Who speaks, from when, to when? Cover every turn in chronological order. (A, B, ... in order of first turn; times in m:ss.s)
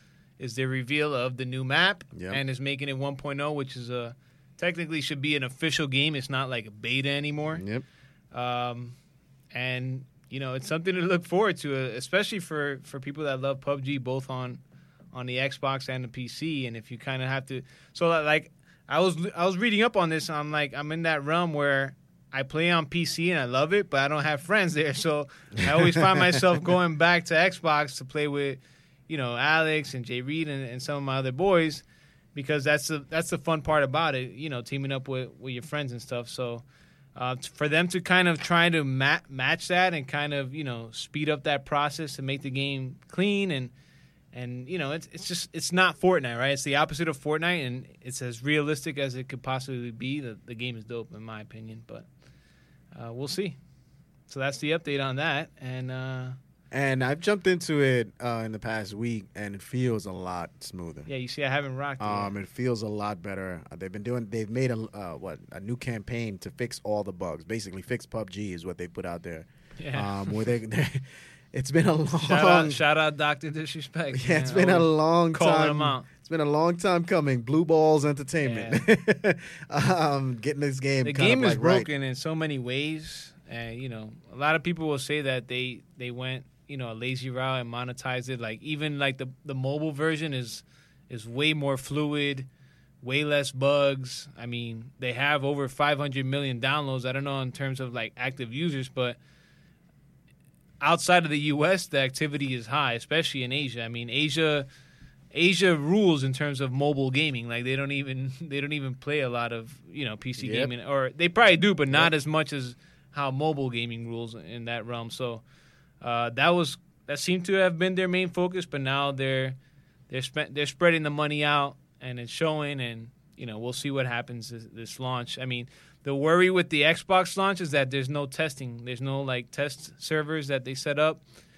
0:00.4-0:07.6 A
0:02.1-0:02.4 B
0:07.5-0:07.8 B
0:08.3-0:08.9 A
0:09.5-0:14.6 A
0:15.1-0:31.8 A
0:32.3-0:36.6 A
0:37.1-0:43.7 A
0:44.3-0:52.0 A
0:52.9-0:53.6 A
0:54.3-0:56.4 A
0:56.7-1:01.1 B
1:01.1-1:02.3 A
1:02.0-1:12.8 B
1:09.8-1:10.5 A
1:12.1-1:16.1 A
1:14.1-1:21.9 B
1:18.4-1:18.8 A
1:21.0-1:32.5 A
1:33.0-1:39.2 A
1:40.8-1:44.7 A
1:45.3-1:55.4 A
1:50.4-1:50.7 B
1:56.0-1:59.6 A
2:00.1-2:11.2 A